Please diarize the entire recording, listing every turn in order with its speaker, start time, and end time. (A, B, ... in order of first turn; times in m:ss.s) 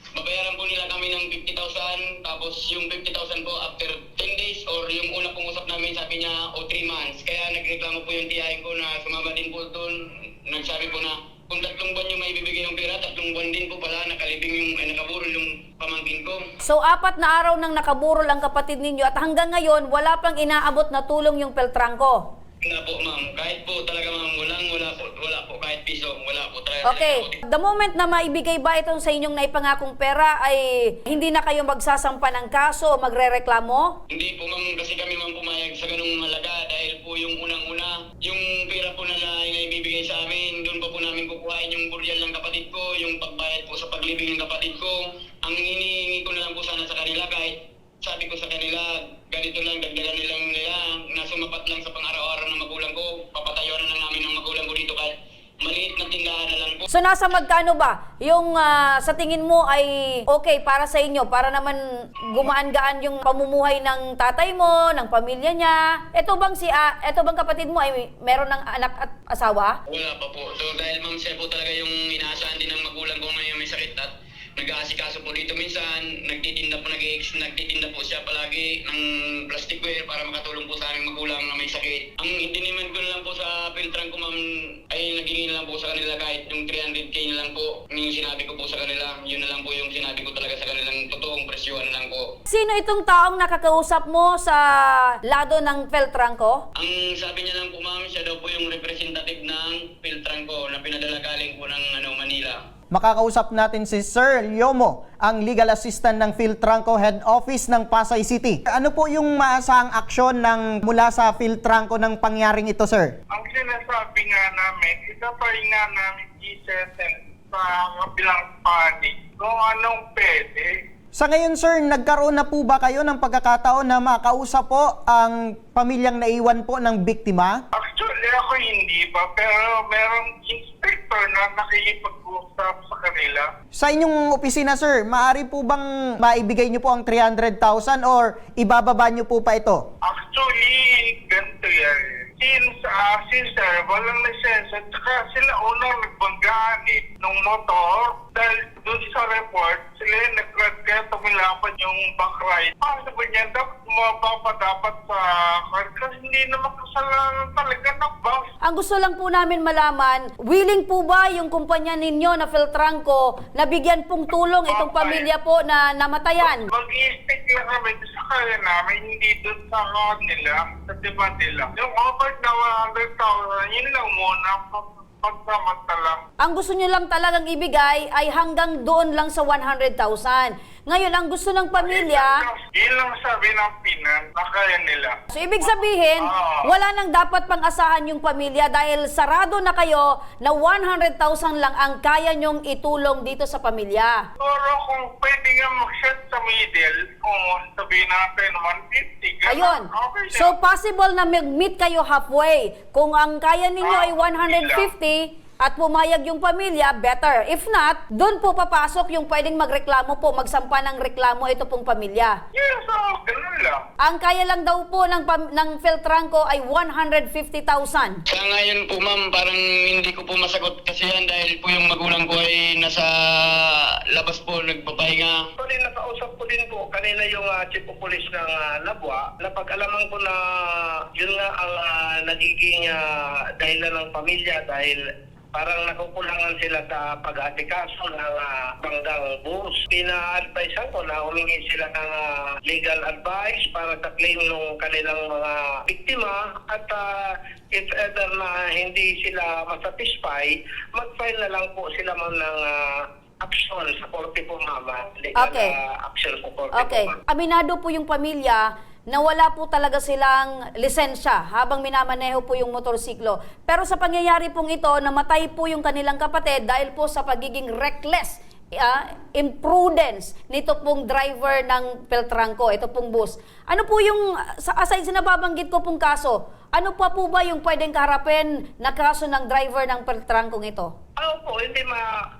0:00.1-0:16.4 A
0:16.6-0:22.2 B
0:22.6-0:27.4 A
0:26.8-0:34.0 B
0:34.1-0:56.9 A
0:56.9-1:09.8 B
1:09.9-1:32.3 A
1:32.5-1:36.6 B
1:36.7-1:42.6 A
1:42.9-1:53.1 C
1:53.3-2:00.8 D
2:01.1-2:07.6 C
2:07.7-2:13.5 D
2:13.8-2:19.8 C
2:20.0-2:38.5 D
2:38.6-2:46.6 B
2:44.7-2:45.3 D
2:46.4-2:56.2 D
2:56.4-3:02.4 B
3:01.8-3:06.8 D
3:05.3-3:14.3 B
3:14.4-3:20.5 D
3:19.5-3:32.4 B
3:23.8-3:24.9 D
3:32.6-3:33.8 D
3:34.0-3:38.2 B
3:38.3-3:45.4 A
3:45.6-3:50.4 E
3:51.1-3:53.0 E
3:53.6-3:55.0 E
3:55.5-4:07.0 E
4:07.7-4:12.8 E
4:13.4-4:17.2 E
4:15.4-4:15.7 B
4:16.7-4:40.9 B
4:41.2-4:42.1 E